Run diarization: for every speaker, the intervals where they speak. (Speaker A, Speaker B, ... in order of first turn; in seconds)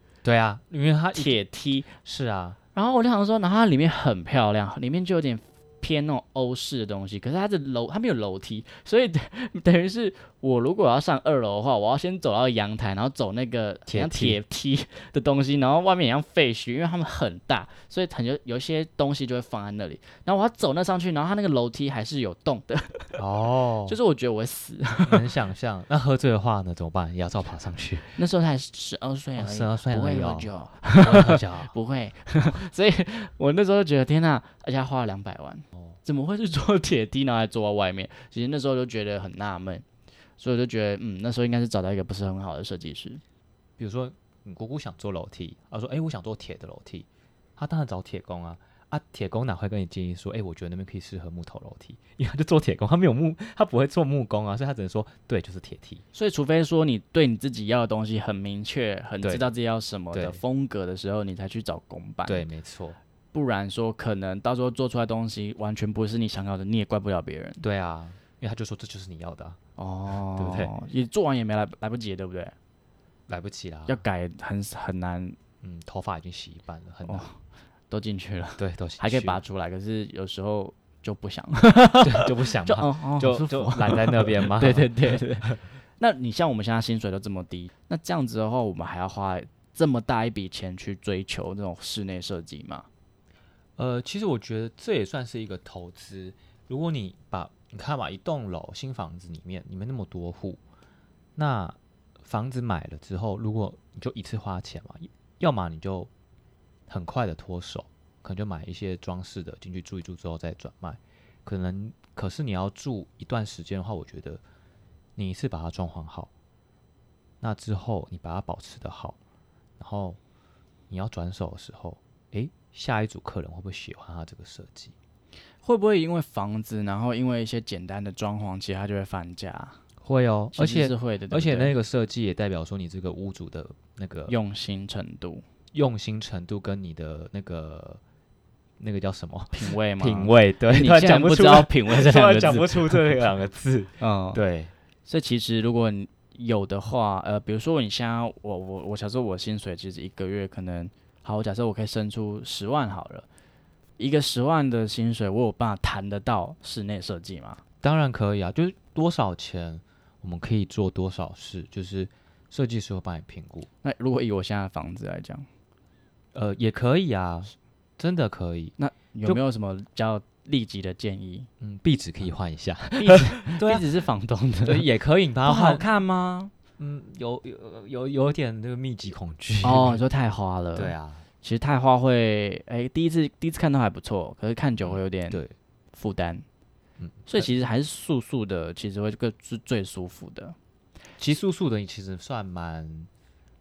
Speaker A: 0.2-1.4, 2.0-2.6, 13.9-14.4, 23.2-24.0, 25.0-28.2, 29.4-31.7, 43.8-56.0, 60.1-60.4, 62.2-63.0, 67.6-69.6, 70.3-70.7, 73.3-74.0, 75.6-77.3, 78.6-79.4, 82.0-85.6, 93.8-100.6, 101.3-106.1, 106.9-114.4, 115.2-116.3, 117.4-119.2, 119.8-120.2, 120.9-124.9, 130.0-134.3, 135.7-138.0, 138.8-144.7, 157.8-163.7, 166.3-169.4, 171.6-173.8, 174.7-175.8, 176.8-180.0, 180.8-181.2, 184.8-185.5, 187.0-187.5, 191.2-193.1
Speaker B: 1.1-1.9, 2.7-23.2, 23.9-25.3, 28.2-39.8, 40.4-43.2, 56.1-62.5, 63.3-67.6, 69.8-72.5, 73.9-75.4, 77.0-77.3, 77.9-92.9, 125.6-129.8, 130.5-131.7, 134.3-135.4, 139.5-143.0, 144.0-144.4, 145.1-153.2, 154.0-157.6, 163.8-165.5, 168.8-171.5, 172.9-174.8, 175.4-176.5, 179.6-185.4, 185.9-186.4, 187.3-190.6